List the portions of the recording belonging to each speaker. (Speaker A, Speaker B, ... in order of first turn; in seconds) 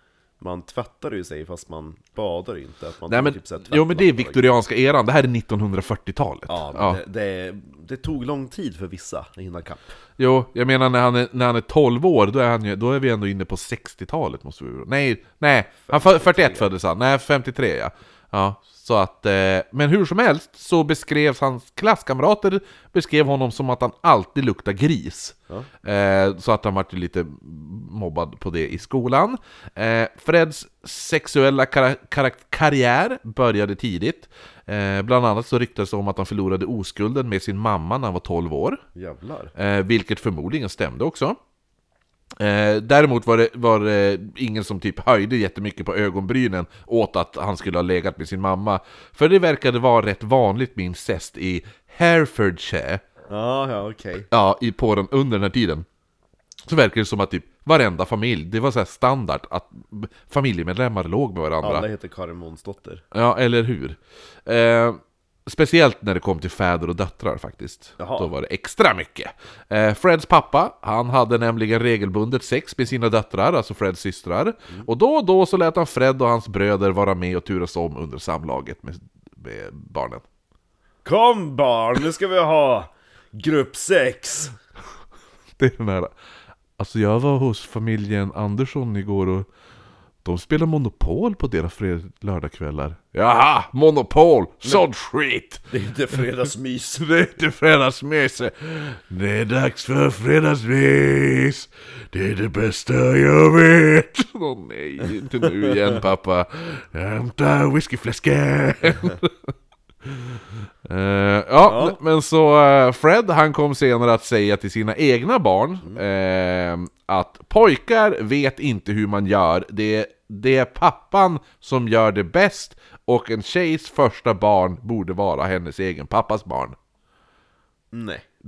Speaker A: 0.4-4.4, 6.5-10.0, 15.9-16.7, 39.0-39.5, 53.3-54.3, 61.6-63.0, 68.0-68.3, 81.0-84.5, 95.7-97.1, 105.6-106.0, 111.6-112.0, 127.9-128.2
Speaker B: 3.1-7.0, 10.2-38.8, 39.6-41.4, 42.4-53.0, 54.3-55.9, 56.7-61.9, 63.1-80.2, 85.6-86.1, 86.8-89.5, 90.2-95.7, 97.0-109.3, 110.1-126.8